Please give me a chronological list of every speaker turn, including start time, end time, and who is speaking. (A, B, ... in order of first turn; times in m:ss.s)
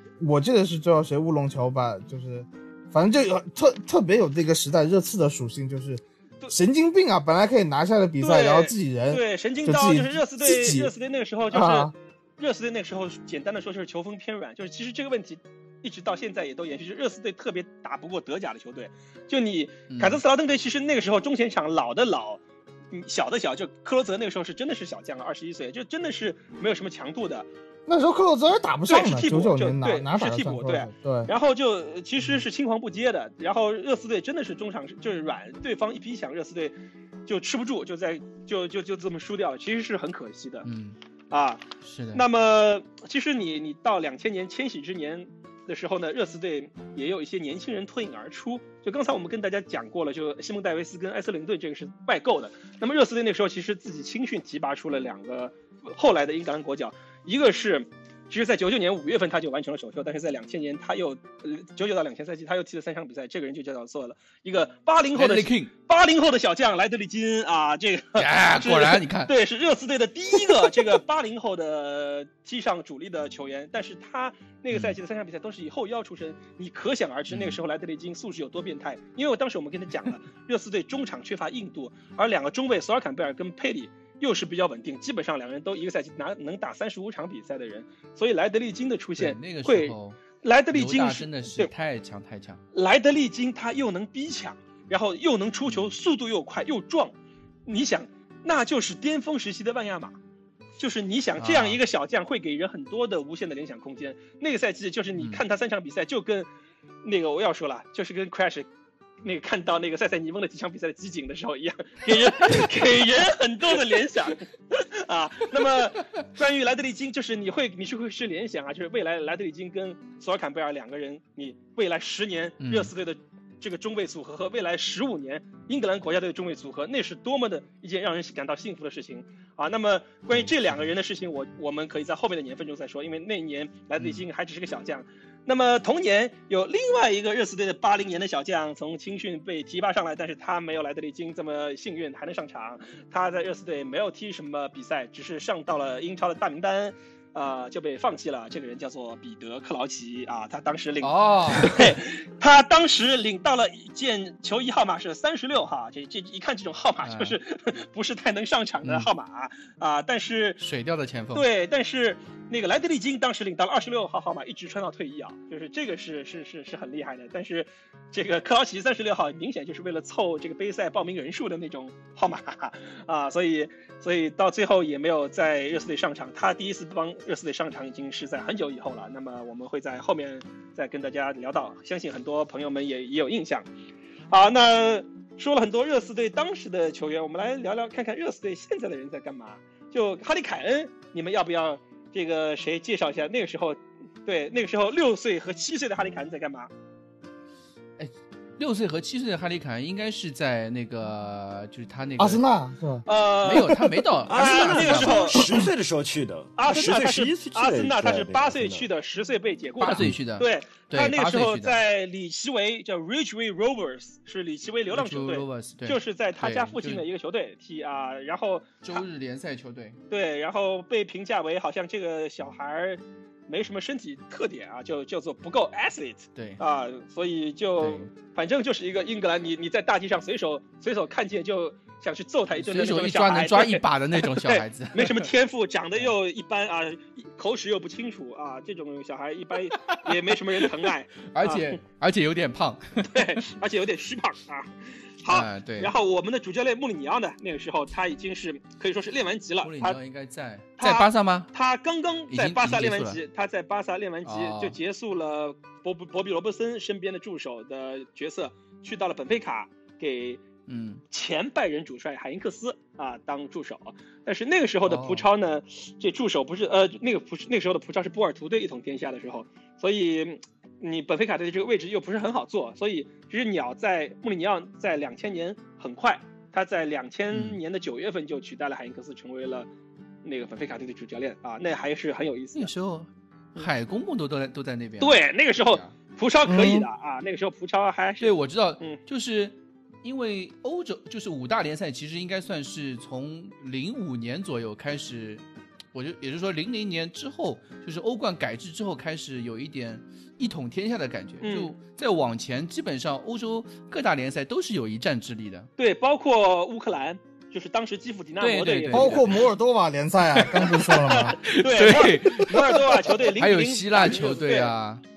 0:00.2-0:10.9 A
0:08.2-0:27.5 B
0:11.5-0:11.9 A
0:19.9-0:20.2 C
0:27.9-0:31.3 A
0:28.9-0:36.7 B
0:37.3-0:40.7 B
0:40.6-0:41.0 C
0:41.3-1:31.7 B
0:41.8-0:42.2 C
1:05.2-1:05.7 C
1:08.2-1:09.3 C
1:14.7-1:15.0 C
1:17.3-1:17.6 C
1:29.2-1:30.2 C
1:30.7-1:32.6 C
1:32.7-1:37.1 B
1:37.7-1:40.2 B
1:40.8-1:46.5 B
1:41.4-1:41.8 C
1:47.0-1:48.7 B
1:49.2-2:40.6 B
2:02.6-2:02.9 C
2:31.0-2:32.0 C
2:37.0-2:37.4 C
2:38.8-2:39.1 C
2:40.6-2:41.4 C
2:41.3-3:03.6 B
3:04.3-3:16.7 B
3:18.0-3:22.4 C
3:22.2-3:23.7 A
3:23.1-3:23.8 B
3:23.4-3:25.4 C
3:24.3-3:28.9 D
3:24.3-3:25.7 B
3:26.6-3:39.0 B
3:29.8-3:31.8 C
3:34.9-3:37.1 C
3:38.8-3:40.0 C
3:40.1-4:01.8 B
3:46.4-3:46.6 C
3:47.8-3:48.1 C
3:52.6-3:55.3 C
4:01.3-4:03.4 C
4:03.1-4:10.0 B
4:05.3-4:05.9 C
4:09.6-4:11.5 C
4:10.8-4:20.4 B
4:12.3-4:13.2 C
4:14.2-4:14.8 C
4:20.7-4:21.0 C
4:21.1-4:39.7 B
4:24.9-4:25.3 C
4:37.3-4:37.6 C
4:40.2-4:42.7 B
4:42.6-4:45.9 C
4:45.0-4:49.0 B
4:46.4-4:46.9 A
4:48.2-4:55.4 C
4:55.9-5:05.7 C
5:01.4-5:01.8 B
5:05.8-5:09.3 B
5:08.4-5:09.4 C
5:08.9-5:11.4 A
5:10.4-5:15.0 C
5:11.0-5:14.7 B